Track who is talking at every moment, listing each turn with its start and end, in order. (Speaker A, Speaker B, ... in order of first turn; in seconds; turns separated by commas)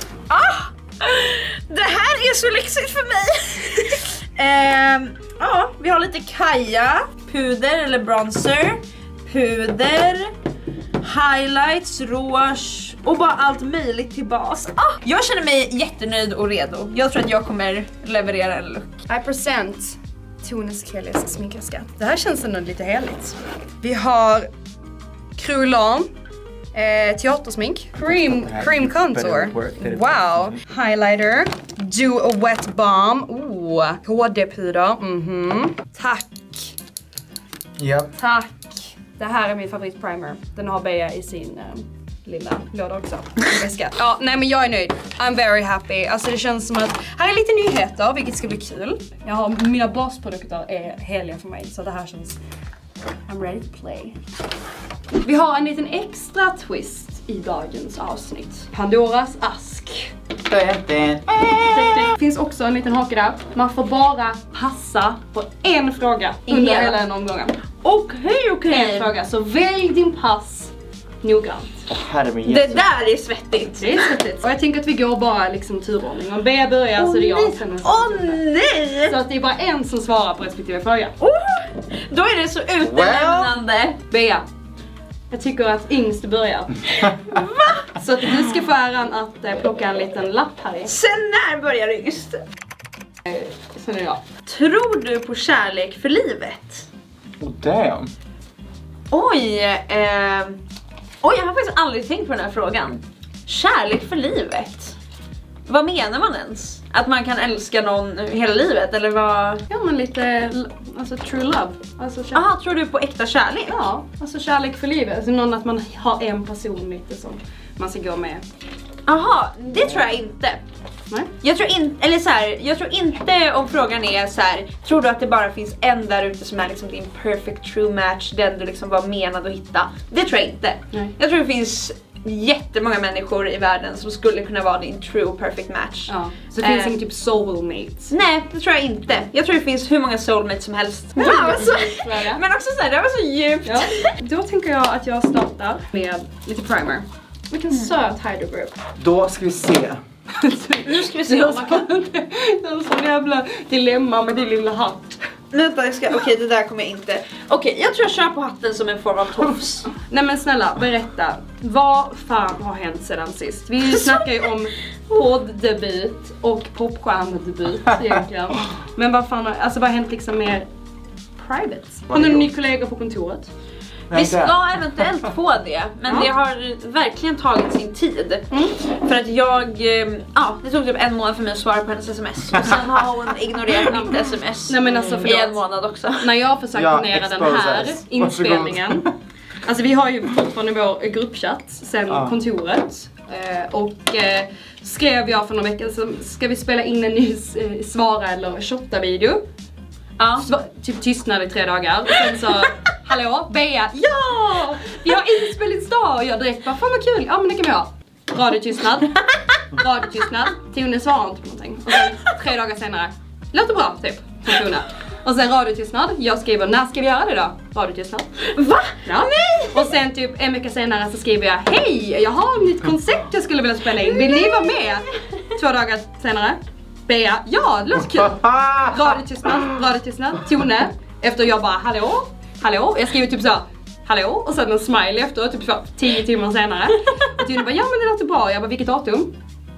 Speaker A: 0.3-10.3, Speaker A: 11.0-18.9, Speaker B: 19.1-24.5, Speaker B: 25.4-26.1, Speaker B: 26.7-36.7, Speaker C: 28.0-30.6, Speaker C: 37.8-38.1, Speaker B: 38.2-52.4, Speaker B: 53.3-54.2, Speaker B: 55.2-60.1, Speaker C: 60.5-62.1, Speaker A: 61.7-62.1, Speaker B: 62.0-67.5, Speaker A: 66.5-67.0, Speaker A: 67.8-69.1, Speaker B: 68.7-71.9, Speaker C: 71.9-72.8, Speaker A: 72.5-74.2, Speaker B: 73.8-78.4, Speaker A: 77.0-79.2, Speaker B: 79.0-81.2, Speaker A: 81.2-84.0, Speaker C: 82.8-83.5, Speaker B: 84.1-84.5, Speaker B: 85.3-86.8, Speaker A: 87.1-87.9, Speaker B: 88.0-90.9, Speaker A: 90.9-92.4, Speaker B: 93.3-94.2, Speaker A: 94.5-96.9, Speaker C: 97.4-98.1, Speaker A: 99.1-100.6, Speaker A: 101.2-105.0, Speaker A: 105.7-109.7, Speaker B: 109.7-112.5, Speaker A: 112.3-113.8, Speaker B: 113.7-118.4, Speaker A: 119.1-120.6, Speaker A: 121.4-137.0, Speaker B: 136.1-138.1, Speaker A: 138.1-144.1, Speaker B: 141.2-142.4, Speaker B: 143.7-148.7, Speaker C: 149.0-150.0, Speaker B: 150.3-155.2, Speaker A: 150.8-151.9, Speaker A: 155.5-159.9, Speaker B: 160.0-170.7, Speaker A: 163.9-164.4, Speaker B: 171.4-173.5, Speaker C: 172.1-172.5, Speaker C: 174.1-174.6, Speaker A: 174.1-186.3, Speaker B: 178.5-178.8, Speaker B: 183.8-185.6, Speaker B: 186.2-189.1, Speaker C: 186.7-189.2, Speaker B: 189.6-199.4, Speaker C: 192.1-192.4, Speaker B: 200.2-218.3, Speaker A: 218.5-219.9, Speaker B: 219.1-239.3, Speaker A: 224.1-224.9, Speaker C: 228.0-229.2